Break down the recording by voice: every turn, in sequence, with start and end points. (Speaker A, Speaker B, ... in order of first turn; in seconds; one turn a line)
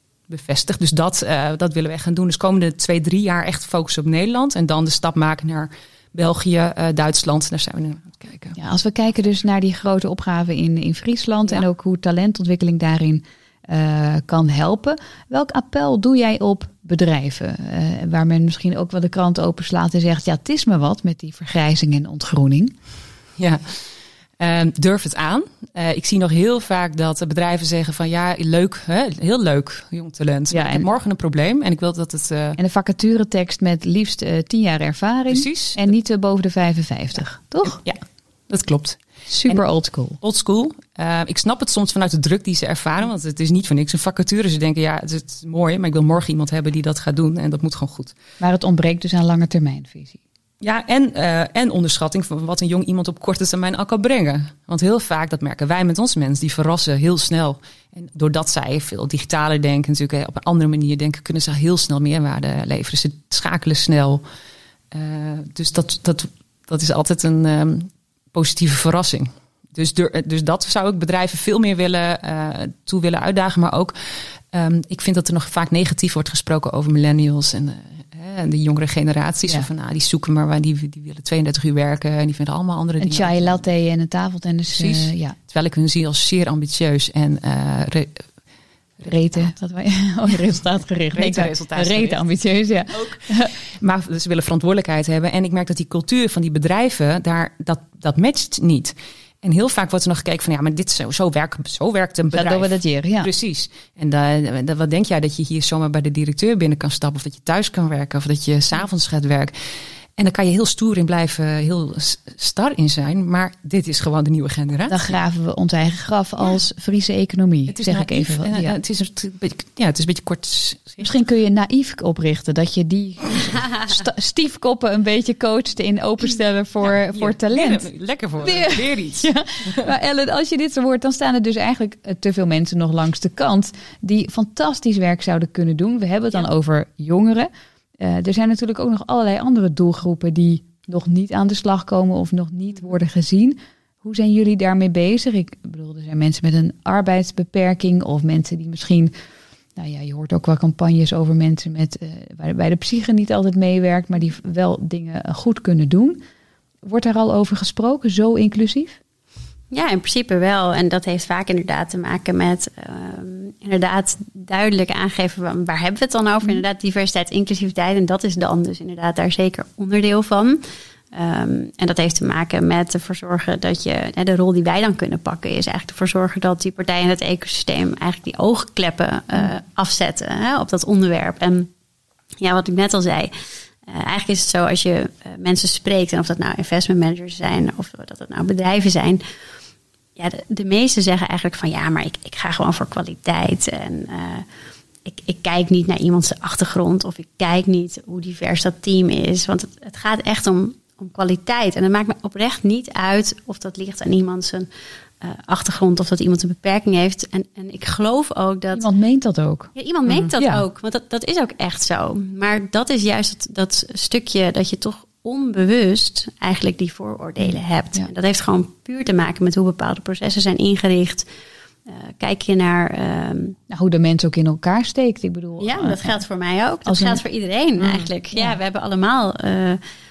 Speaker A: 0.3-8.6
Speaker B: 8.6-22.7
Speaker A: 23.4-23.8
Speaker A: 24.4-32.6
Speaker B: 30.5-30.9
Speaker B: 32.6-37.8
Speaker A: 35.3-35.9
Speaker A: 37.6-39.6
Speaker B: 39.3-40.2
Speaker A: 40.2-48.1
Speaker B: 48.4-50.2
Speaker A: 50.6-64.2
Speaker A: 64.9-83.6
Speaker B: 83.0-85.3
Speaker A: 84.7-88.2
Speaker B: 89.0-93.5
Speaker A: 91.1-92.2
Speaker A: 92.9-109.5
Speaker B: 102.3-103.3
Speaker A: 110.2-115.0
Speaker B: 114.9-118.7
Speaker A: 117.7-121.1
Speaker B: 121.0-127.9
Speaker A: 126.8-129.9
Speaker B: 128.4-149.1
Speaker B: 149.8-156.2
Speaker B: 156.8-158.9
Speaker C: 159.7-170.6
Speaker C: 171.1-181.7
Speaker C: 182.4-183.3
Speaker C: 183.8-189.2
Speaker C: 190.2-194.4
Speaker C: 195.0-204.7
Speaker C: 205.2-208.9
Speaker B: 208.7-209.7
Speaker C: 209.7-221.3
Speaker B: 210.4-210.6
Speaker B: 217.4-218.1
Speaker C: 221.9-223.6
Speaker B: 223.7-226.2
Speaker C: 225.6-229.8
Speaker B: 226.8-227.2